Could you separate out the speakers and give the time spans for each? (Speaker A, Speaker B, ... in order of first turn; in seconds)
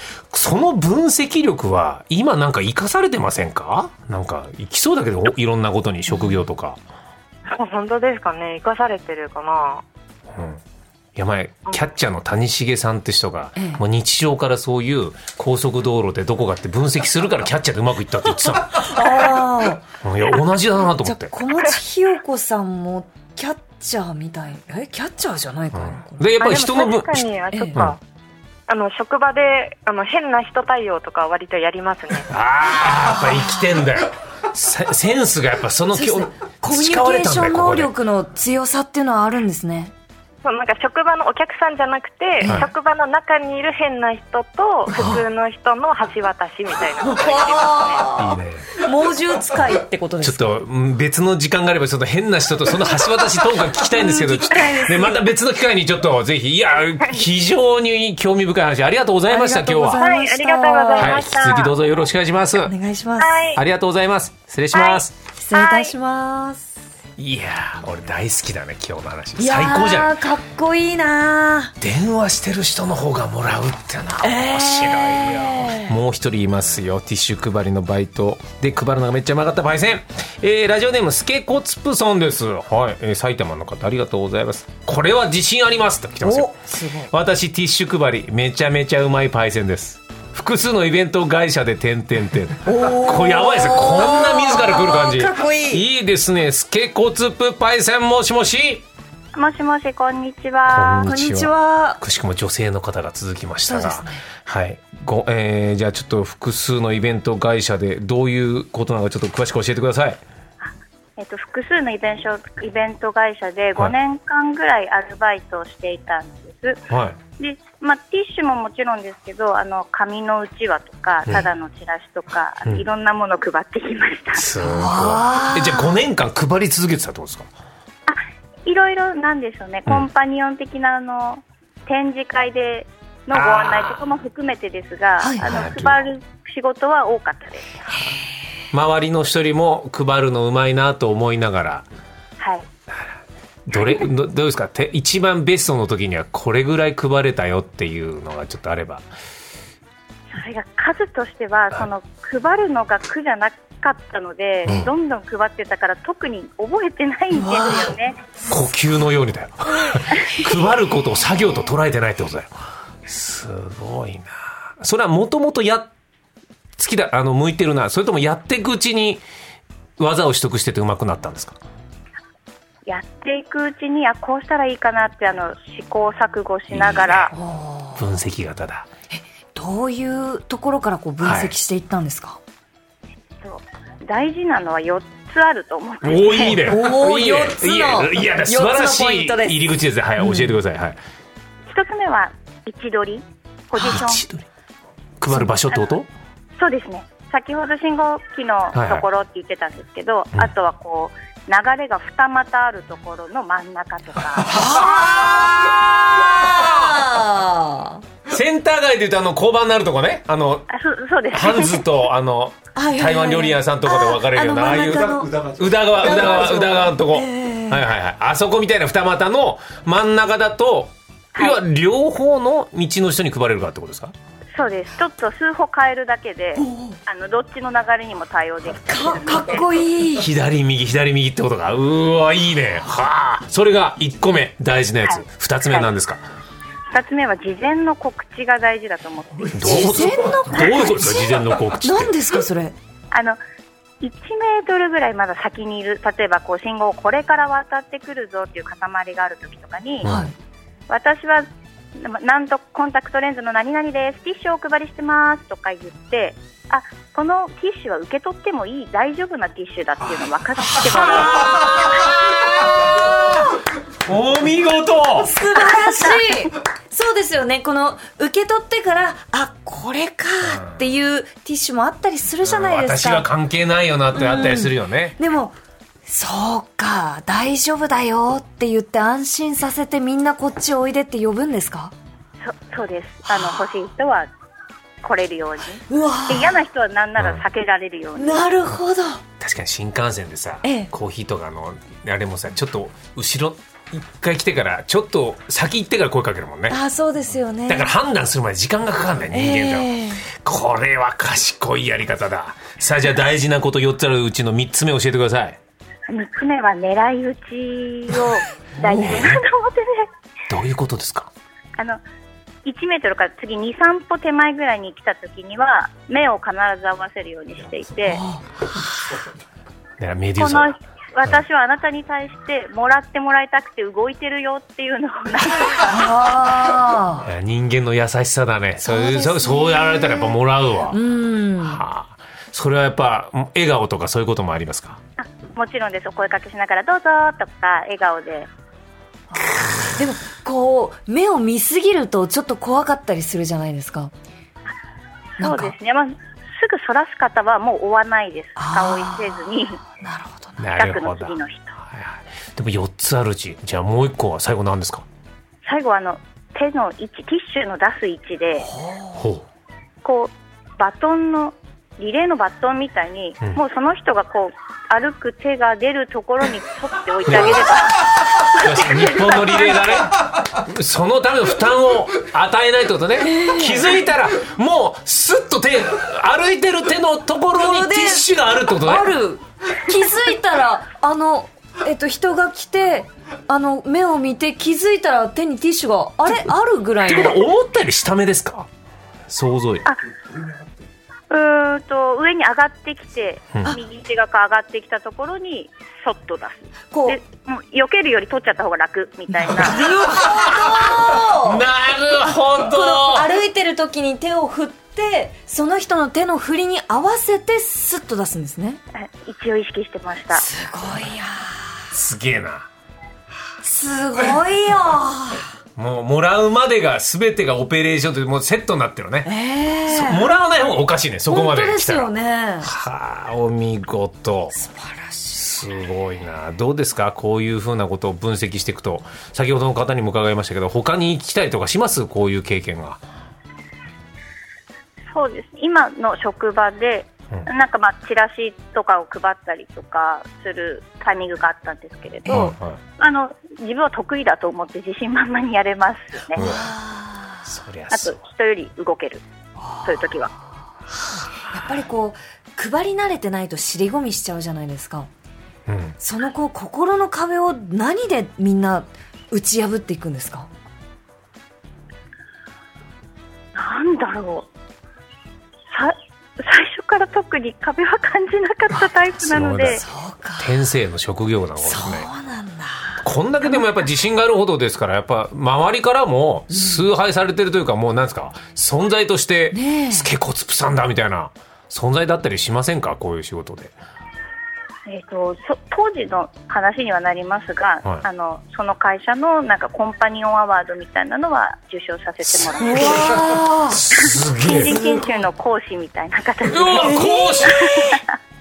Speaker A: 0.3-6.8, 10.3-10.6, 11.2-19.4, 20.0-21.5, 25.7-28.0, 32.3-37.9, 42.4-42.7, 48.2-48.8, 50.2-60.0, 61.0-62.7, 63.5-65.1, 67.2-70.2, 71.8-86.5, 87.1-98.8, 100.7-110.2, 116.9-117.2, 124.3-127.5, 133.3-134.0, 135.4-136.0, 138.7-141.9, 143.7-149.1, 158.5-162.5, 163.1-165.9, 166.8-169.2, 170.0-171.6, 176.7-177.3, 178.0-178.9, 181.2-181.5, 186.0-191.0, 193.8-194.5, 195.2-196.1, 198.7-199.1, 204.7-207.0, 208.3-210.7, 211.3-224.1, 230.2-236.2, 239.5-242.2, 250.0-250.3, 260.8-265.3, 270.5-270.8, 272.4-275.2, 287.2-287.4, 289.4-296.8, 297.7-305.6, 308.9-309.4, 310.5-311.3, 320.0-320.7, 327.2-331.0, 331.6-335.0, 350.6-355.1, 359.2-359.4, 367.3-367.8, 368.6-379.2, 387.1-388.7, 389.3-389.9, 399.7-403.3, 411.9-412.7, 415.8-419.3, 419.9-424.6, 425.3-433.0, 442.3-442.8, 446.4-446.7, 447.4-448.2, 455.7-455.9, 469.2-469.8, 470.4-472.1, 473.0-483.8, 492.6-494.8, 496.5-497.9
Speaker B: 6.1-6.4, 13.6-13.8, 18.6-19.9, 21.0-26.3, 27.5-27.8, 35.9-39.9, 47.0-50.5, 53.9-55.2, 59.3-61.3, 62.6-63.5, 65.2-66.8, 69.4-71.8, 74.2-76.0, 86.2-87.1, 92.7-95.8, 101.0-102.0, 103.7-104.2, 124.6-126.0, 135.2-135.6, 157.3-157.9, 177.3-178.0, 179.1-182.4, 186.6-189.6, 190.2-190.6, 204.4-208.0, 212.8-217.8, 226.6-227.0, 228.8-230.3, 239.6-242.8, 250.0-250.3, 260.9-261.8, 265.2-273.3, 274.1-275.6, 276.1-281.9, 285.9-286.6, 288.2-289.2, 290.6-290.9, 296.7-297.9, 299.3-300.2, 318.1-318.4, 325.8-327.3, 328.8-331.8, 339.3-344.1, 345.4-345.8, 348.6-349.4, 350.0-350.6, 358.7-359.2, 373.2-374.0, 377.5-387.4, 396.9-397.2, 399.4-408.8, 410.3-411.8, 413.6-415.4, 419.3-420.3, 421.3-422.7, 424.5-425.4, 446.4-447.4, 449.6-450.4, 451.5-455.1, 456.0-460.5, 469.5-470.6, 471.6-473.6, 476.5-476.8, 479.5-480.1, 492.4-493.8, 494.5-495.2, 496.8-497.9
Speaker C: 7.5-9.8, 26.4-28.0, 28.7-32.3, 40.4-48.1, 54.6-54.9, 60.0-61.7, 63.2-63.6, 64.8-65.0, 65.5-65.9
Speaker D: 99.3-101.1, 110.6-116.8, 117.4-124.5, 128.1-137.8, 142.4-142.7, 150.3-158.2, 172.9-177.3, 183.4-186.7, 191.7-194.2, 196.6-204.7, 210.7-211.8, 221.3-221.6, 224.6-229.6, 235.1-235.9, 236.9-239.9, 243.1-243.4, 244.0-250.1, 250.9-261.8, 265.6-266.3, 282.4-284.3, 285.0-288.5, 306.1-310.1, 311.8-312.0, 312.6-318.2, 320.4-326.1, 335.2-338.5, 345.4-349.8, 350.8-351.8, 355.6-358.7, 360.0-369.9, 391.3-399.9, 408.9-410.5, 435.1-446.4, 447.9-449.2, 449.8-450.3, 463.6-464.5, 465.7-469.8, 484.9-493.1, 493.9-498.0